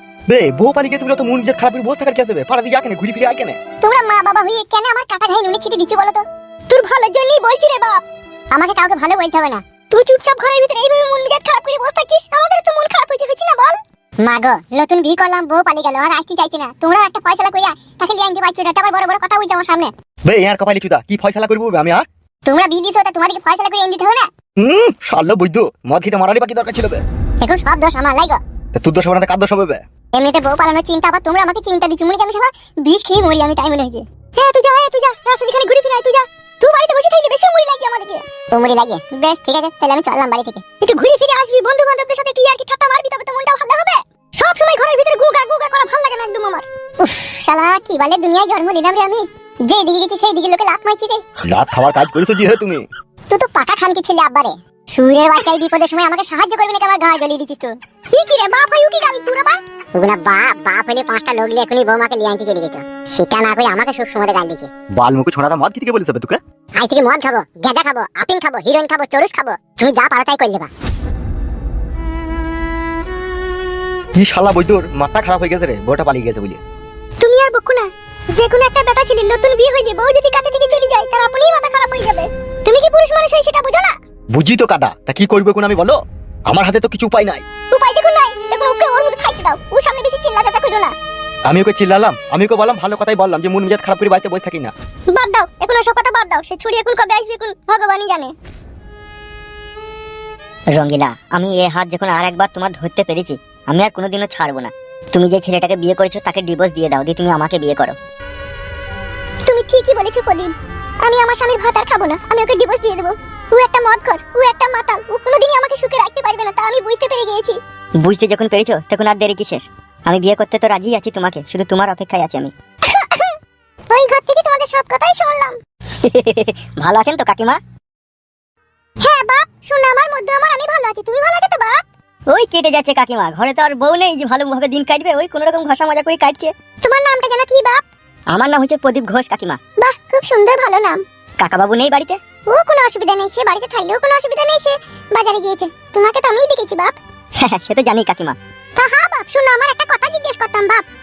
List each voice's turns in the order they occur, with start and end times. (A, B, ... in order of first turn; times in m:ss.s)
0:00.3-0:03.6 A
0:03.8-0:08.0 B
0:08.5-0:19.9 B
0:20.3-0:22.0 A
0:22.4-0:24.3 B
0:24.6-0:27.0 A
0:27.4-0:28.4 B
0:28.8-0:29.8 A
0:30.1-0:51.2 B
0:51.5-0:52.8 A
0:53.3-1:04.7 B
1:05.0-1:06.4 A
1:06.8-1:10.7 B
1:14.2-1:16.6 A
1:17.2-1:23.9 B
1:24.3-1:26.0 A
1:26.5-1:27.4 A
1:27.7-1:30.9 B
1:31.5-1:34.7 A
1:35.1-1:38.3 B
1:40.7-1:47.9 C
1:49.4-1:57.6 B
1:58.0-2:02.5 C
2:02.9-2:03.3 B
2:03.9-2:05.6 B
2:06.0-2:07.6 C
2:09.0-2:11.8 B
2:12.3-2:16.5 C
2:16.8-2:17.8 B
2:18.3-2:19.6 C
2:19.8-2:21.0 B
2:21.4-2:22.2 C
2:22.5-2:27.0 B
2:27.4-2:28.4 C
2:28.8-2:30.8 B